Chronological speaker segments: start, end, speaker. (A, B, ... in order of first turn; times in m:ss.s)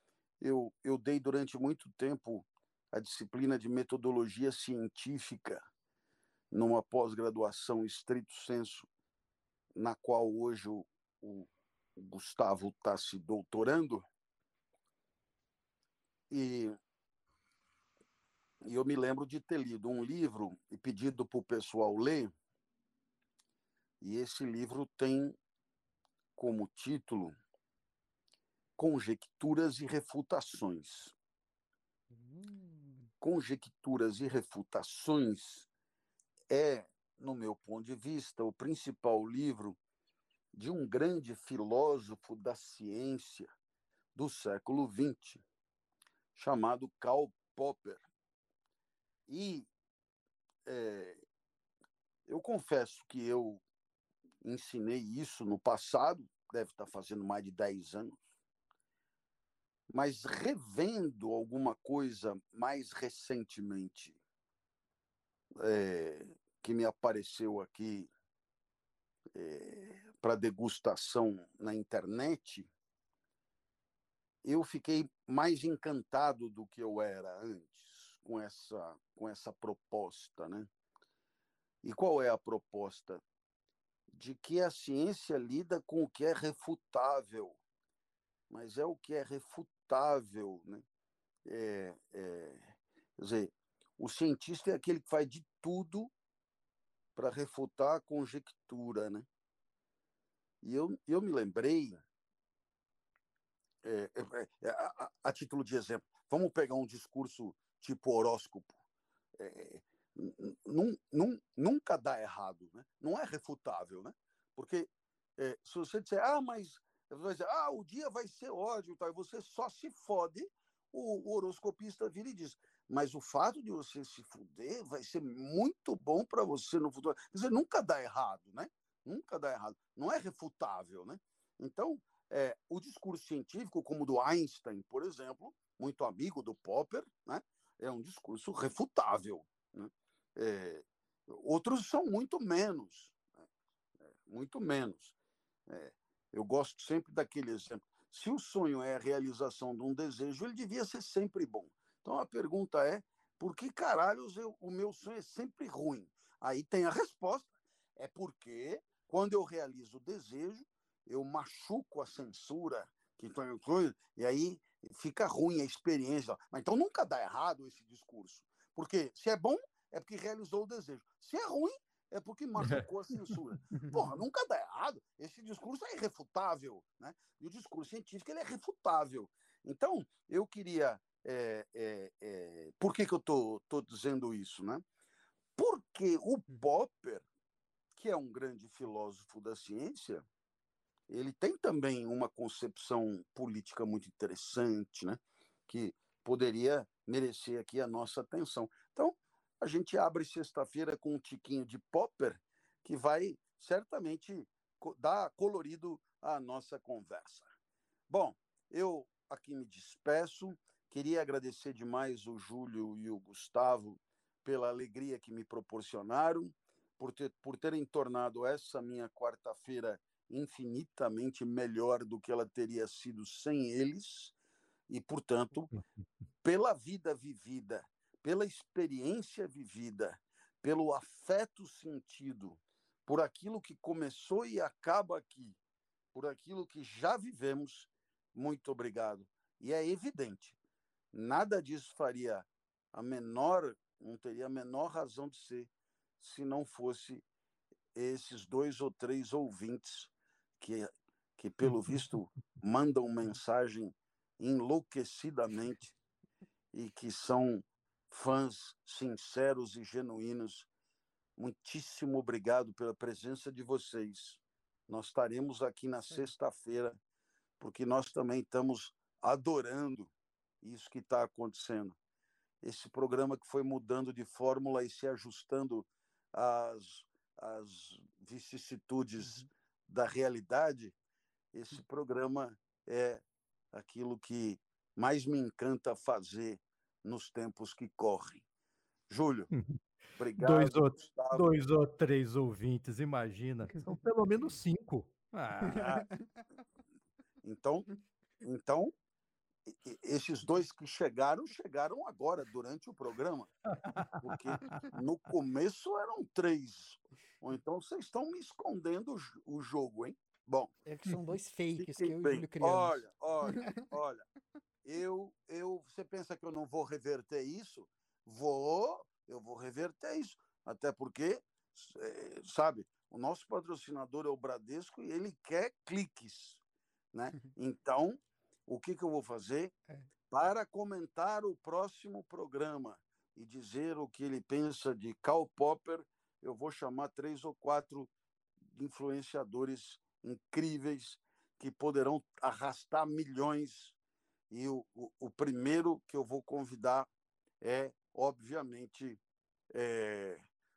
0:00.4-0:05.6 A
0:06.5-0:08.9 A
0:09.7-0:14.0 A
0:16.3-0:16.7 A
0:18.6-0:22.3 A
0:24.0-0:25.4 A
0:26.4-0:27.3 A
0:28.8-0:31.1 A
0:32.1-0:33.1 B
0:33.2-0:35.7 A
0:36.5-0:39.8 A
0:40.5-0:43.5 A
0:44.1-0:45.4 A
0:46.3-0:48.0 A
0:49.3-0:49.7 A
0:50.6-0:51.2 A
0:52.3-0:53.6 A
0:54.4-0:58.2 A
0:59.9-1:04.2 A
1:05.6-1:08.1 A
1:09.3-1:12.7 A
1:14.4-1:20.7 A
1:21.8-1:23.2 A
1:24.1-1:27.6 A
1:28.5-1:30.8 A
1:31.4-1:36.1 A
1:37.2-1:39.2 A
1:40.6-1:42.0 A
1:43.8-1:48.8 A
1:49.4-2:23.2 A
2:24.2-2:25.1 A
2:25.7-3:04.8 A
2:52.6-2:53.4 C
3:05.6-3:07.2 A
3:07.9-3:10.2 A
3:11.1-3:27.5 A
3:28.1-3:44.3 A
3:44.9-3:45.7 A
3:46.4-3:55.6 A
3:56.1-4:00.6 A
4:01.1-4:07.2 A
4:07.9-4:16.0 A
4:16.7-4:20.7 A
4:21.4-4:27.0 A
4:27.6-4:32.0 A
4:32.6-4:41.0 A
4:41.5-4:48.4 A
4:49.1-4:49.5 A
4:49.5-4:49.8 C
4:50.2-4:51.5 A
4:50.4-4:55.9 C
4:55.7-4:56.1 A
4:57.4-4:57.9 A
4:58.4-4:58.9 A
4:59.7-5:03.5 A
5:03.8-5:05.0 C
5:04.2-5:10.7 A
5:10.8-5:13.8 B
5:11.8-5:14.2 A
5:14.8-5:26.6 A
5:27.1-5:29.7 A
5:30.3-5:38.1 A
5:38.7-5:44.0 A
5:44.5-5:47.1 A
5:47.6-5:49.2 A
5:49.7-5:50.4 A